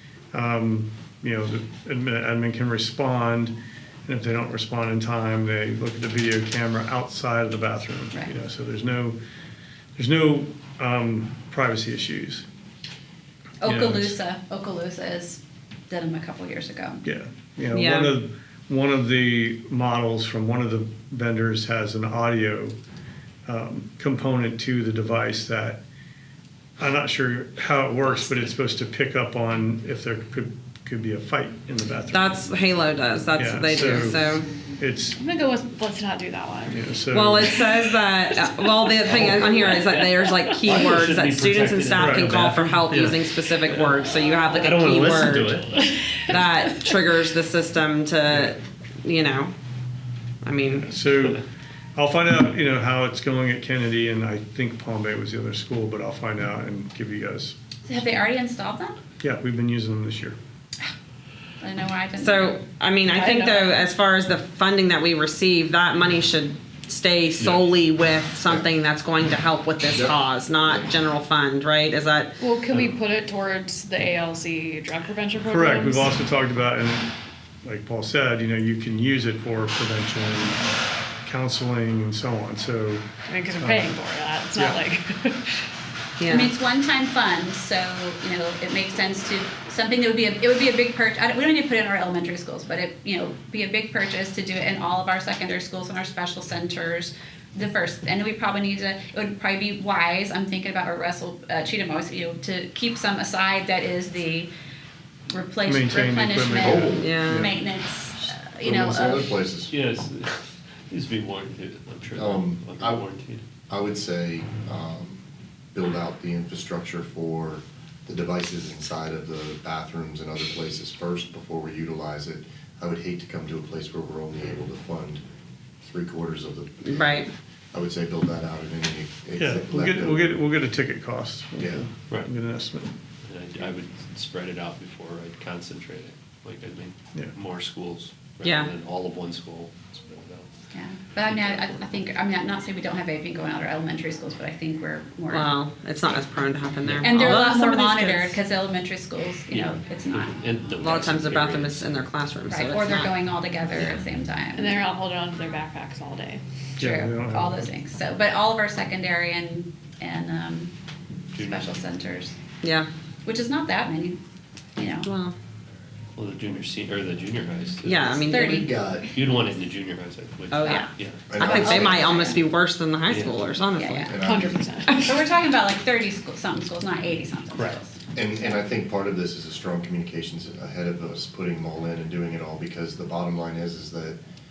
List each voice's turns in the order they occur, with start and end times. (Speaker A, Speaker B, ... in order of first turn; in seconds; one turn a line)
Speaker A: 0.3-3.5
Speaker A: 4.0-9.2
Speaker A: 9.9-12.4
Speaker B: 13.6-17.0
Speaker A: 13.6-14.2
Speaker A: 17.0-22.8
Speaker C: 17.7-18.2
Speaker A: 23.4-25.8
Speaker A: 26.8-32.4
Speaker C: 32.1-34.5
Speaker A: 33.4-34.2
Speaker A: 34.8-35.2
Speaker D: 35.2-36.9
Speaker A: 36.7-37.6
Speaker C: 37.1-45.6
Speaker D: 37.4-38.9
Speaker E: 39.0-39.8
Speaker D: 39.5-40.6
Speaker E: 40.6-45.9
Speaker A: 42.0-43.1
Speaker D: 45.8-46.9
Speaker C: 46.2-49.5
Speaker A: 48.3-48.5
Speaker C: 50.4-50.9
Speaker A: 50.7-51.4
Speaker A: 52.0-57.5
Speaker B: 57.9-59.0
Speaker A: 59.2-60.4
Speaker B: 61.6-62.6
Speaker C: 62.2-72.4
Speaker B: 63.1-63.7
Speaker E: 67.4-67.6
Speaker F: 69.9-70.9
Speaker D: 72.4-76.1
Speaker A: 75.5-80.6
Speaker A: 81.2-84.0
Speaker D: 83.2-85.6
Speaker A: 84.5-84.8
Speaker C: 86.2-86.5
Speaker B: 86.3-104.5
Speaker B: 105.3-109.3
Speaker A: 105.6-107.5
Speaker F: 106.6-107.1
Speaker C: 107.0-107.5
Speaker F: 108.6-109.7
Speaker E: 109.7-113.4
Speaker F: 112.2-113.0
Speaker F: 113.7-115.2
Speaker F: 115.7-125.2
Speaker F: 125.8-127.2
Speaker C: 126.8-127.3
Speaker F: 127.7-130.3
Speaker A: 129.4-132.9
Speaker F: 131.6-131.9
Speaker E: 133.2-140.5
Speaker C: 138.4-138.7
Speaker B: 140.7-145.5
Speaker E: 141.2-142.0
Speaker C: 145.3-148.3
Speaker E: 146.8-147.1
Speaker B: 147.0-150.4
Speaker E: 149.5-151.9
Speaker C: 150.8-153.1
Speaker B: 152.5-154.8
Speaker D: 154.5-156.4
Speaker A: 156.8-157.7
Speaker B: 156.8-160.7
Speaker E: 161.3-161.8
Speaker B: 161.4-162.3
Speaker C: 162.6-162.9
Speaker B: 163.2-164.2
Speaker B: 164.8-165.1
Speaker C: 165.0-165.3
Speaker E: 166.2-168.1
Speaker C: 167.8-168.7
Speaker B: 168.2-169.1
Speaker F: 168.3-169.1
Speaker E: 169.1-171.3
Speaker C: 170.5-174.2
Speaker B: 170.6-172.4
Speaker F: 171.3-172.1
Speaker E: 173.1-173.4
Speaker B: 173.7-174.2
Speaker F: 174.1-174.9
Speaker D: 174.2-175.3
Speaker B: 174.9-178.5
Speaker E: 177.5-177.8
Speaker F: 178.1-184.2